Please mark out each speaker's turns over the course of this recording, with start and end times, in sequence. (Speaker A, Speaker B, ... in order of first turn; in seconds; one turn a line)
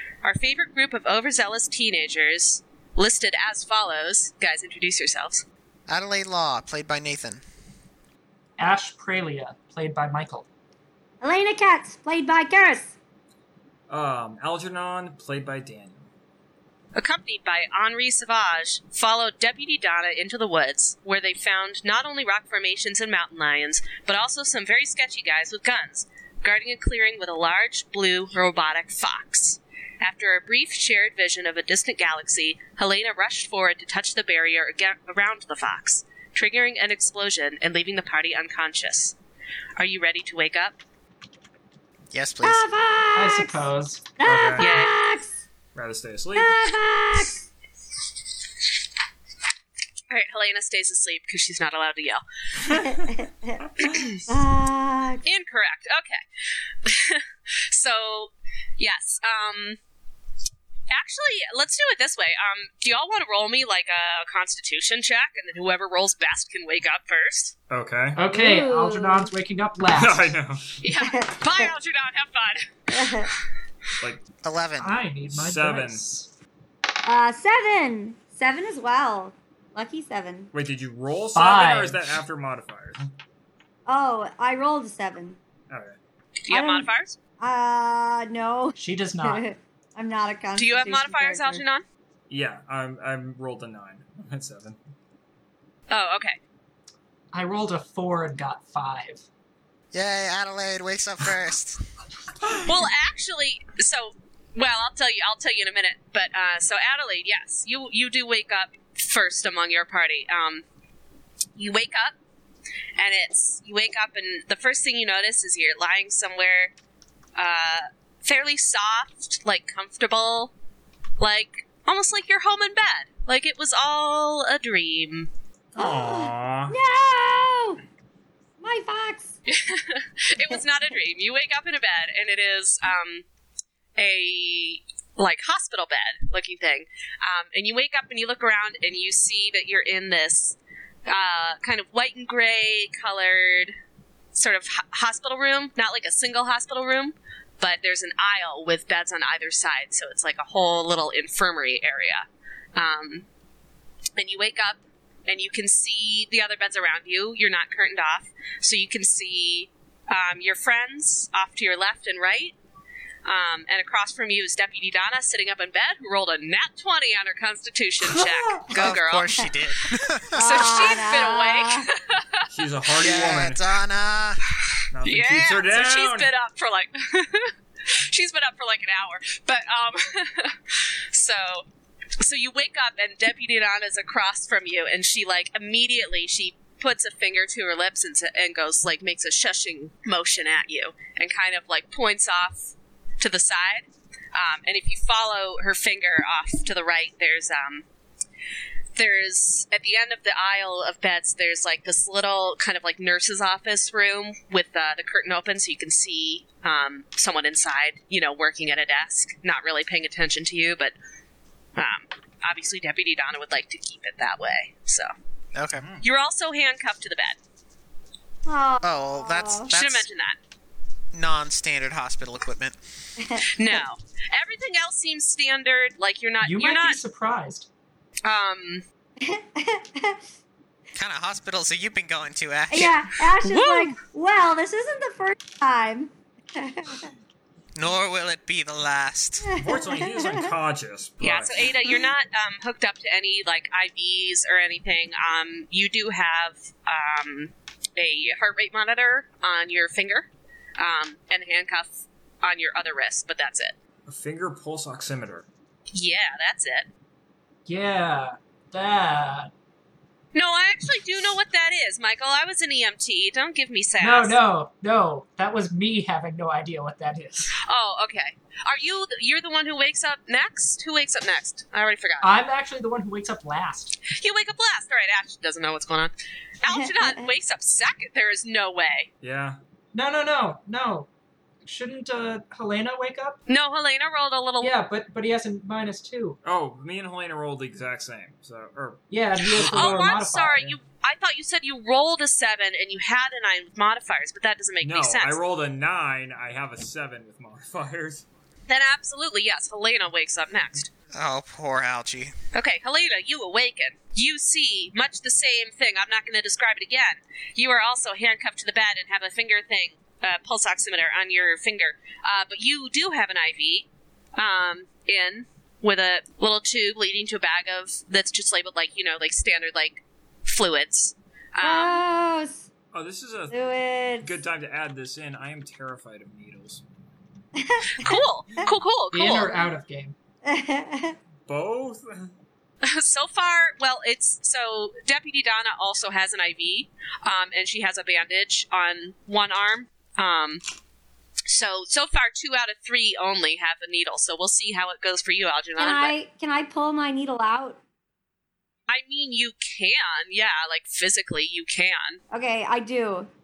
Speaker A: 0.2-5.5
Speaker B: 5.9-7.4
Speaker C: 8.6-10.5
Speaker D: 11.2-12.9
Speaker E: 13.9-16.1
Speaker A: 16.9-39.2
Speaker A: 39.8-40.8
Speaker B: 42.1-42.7
Speaker D: 42.4-43.6
Speaker C: 43.2-44.1
Speaker D: 44.2-45.4
Speaker E: 44.2-44.8
Speaker A: 44.6-44.9
Speaker E: 45.8-46.7
Speaker D: 46.4-47.4
Speaker A: 50.1-52.2
Speaker D: 52.7-53.6
Speaker E: 53.6-54.0
Speaker A: 53.8-54.2
Speaker D: 54.3-55.2
Speaker A: 55.2-56.2
Speaker A: 56.8-59.8
Speaker A: 60.9-67.5
Speaker E: 67.7-68.2
Speaker C: 68.2-70.3
Speaker D: 68.3-69.3
Speaker E: 69.9-70.7
Speaker A: 70.8-73.4
Speaker D: 70.9-71.7
Speaker D: 72.9-73.3
Speaker B: 74.4-75.0
Speaker C: 74.8-76.3
Speaker E: 75.3-76.0
Speaker D: 77.0-80.5
Speaker E: 80.5-83.0
Speaker C: 81.4-82.0
Speaker D: 83.9-85.4
Speaker E: 85.7-86.0
Speaker A: 86.5-87.2
Speaker D: 86.5-86.9
Speaker D: 87.4-91.6
Speaker C: 88.8-89.4
Speaker A: 90.6-91.8
Speaker E: 92.3-94.8
Speaker A: 95.9-96.4
Speaker C: 97.3-99.3
Speaker B: 99.9-101.8
Speaker A: 102.6-110.6
Speaker A: 111.6-112.2
Speaker A: 113.0-116.7
Speaker A: 117.3-120.5
Speaker A: 121.2-125.3
Speaker E: 125.8-126.8
Speaker D: 125.8-127.8
Speaker D: 128.6-129.3
Speaker A: 129.5-133.2
Speaker A: 134.0-143.8
Speaker A: 144.3-153.3
Speaker A: 154.2-162.6
Speaker A: 163.2-169.4
Speaker B: 168.7-170.9
Speaker A: 170.3-172.5
Speaker D: 170.3-171.9
Speaker E: 172.5-173.6
Speaker B: 173.0-174.4
Speaker E: 174.9-176.3
Speaker A: 175.0-181.7
Speaker A: 182.2-197.9
Speaker A: 198.9-210.9
Speaker A: 211.8-215.1
Speaker B: 215.5-215.9
Speaker E: 215.8-216.0
Speaker A: 216.0-217.4
Speaker D: 218.5-219.7
Speaker B: 218.8-220.1
Speaker A: 219.7-220.4
Speaker B: 221.1-222.8
Speaker D: 223.2-223.8
Speaker A: 223.5-227.0
Speaker C: 226.4-227.7
Speaker A: 228.2-228.8
Speaker D: 229.2-230.2
Speaker B: 230.9-233.0
Speaker D: 232.7-237.1
Speaker A: 233.4-234.0
Speaker B: 237.8-239.6
Speaker D: 239.4-240.5
Speaker E: 239.6-241.7
Speaker A: 241.2-253.8
Speaker E: 254.1-255.5
Speaker A: 255.9-256.9
Speaker C: 257.7-259.5
Speaker A: 260.3-264.4
Speaker C: 264.0-267.6
Speaker A: 267.6-272.4
Speaker C: 272.2-274.0
Speaker A: 274.1-279.1
Speaker D: 276.7-277.3
Speaker E: 279.2-279.6
Speaker C: 279.9-281.1
Speaker C: 281.6-283.4
Speaker A: 283.5-284.7
Speaker C: 284.6-286.4
Speaker E: 286.4-290.0
Speaker C: 289.1-290.8
Speaker A: 289.6-295.4
Speaker E: 294.8-298.2
Speaker A: 298.7-300.9
Speaker B: 301.1-302.3
Speaker A: 302.5-322.0
Speaker D: 321.6-322.6
Speaker E: 322.9-323.6
Speaker D: 323.5-324.3
Speaker E: 324.2-326.8
Speaker D: 327.6-328.7
Speaker A: 328.0-329.5
Speaker C: 329.1-330.1
Speaker D: 330.4-331.2
Speaker E: 331.5-332.3
Speaker A: 332.8-340.6
Speaker A: 341.5-346.1
Speaker D: 345.8-347.8
Speaker A: 348.9-352.2
Speaker D: 352.3-353.3